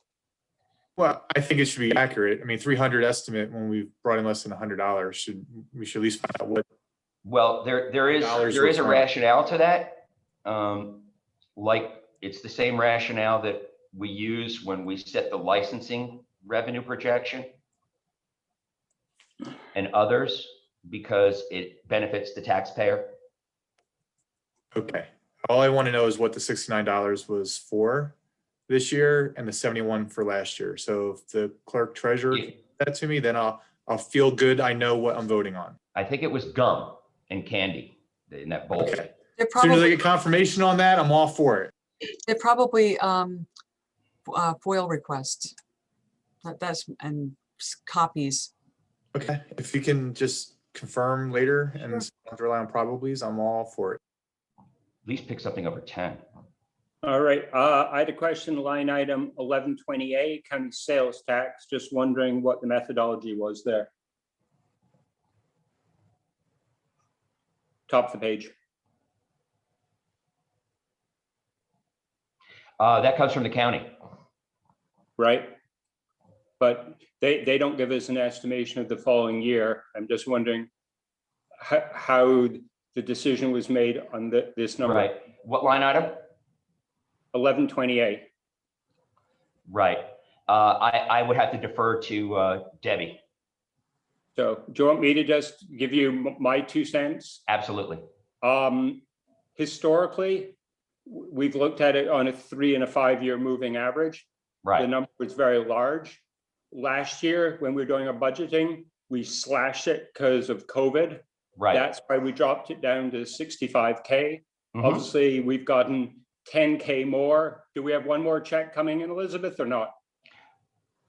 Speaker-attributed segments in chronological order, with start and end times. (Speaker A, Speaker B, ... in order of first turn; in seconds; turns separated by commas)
Speaker A: 1.0-6.6, Speaker B: 7.2-17.5, Speaker A: 8.1-9.1, Speaker B: 19.7-23.1, Speaker A: 24.7-28.1, Speaker A: 28.7-35.8, Speaker B: 35.9-39.1, Speaker A: 38.8-41.7, Speaker C: 39.4-40.0, Speaker C: 42.2-43.5, Speaker C: 44.2-45.5, Speaker C: 46.4-48.5, Speaker A: 49.1-54.0, Speaker B: 55.0-56.2, Speaker D: 57.0-63.9, Speaker D: 67.9-68.5, Speaker B: 72.8-74.0, Speaker D: 75.2-75.5, Speaker D: 76.6-80.7, Speaker D: 81.6-85.1, Speaker B: 84.8-86.2, Speaker D: 87.3-88.3, Speaker B: 89.7-93.2, Speaker D: 94.3-97.4, Speaker B: 97.5-98.0, Speaker D: 98.4-99.0, Speaker D: 99.5-119.9, Speaker B: 111.5-111.9, Speaker B: 114.7-115.0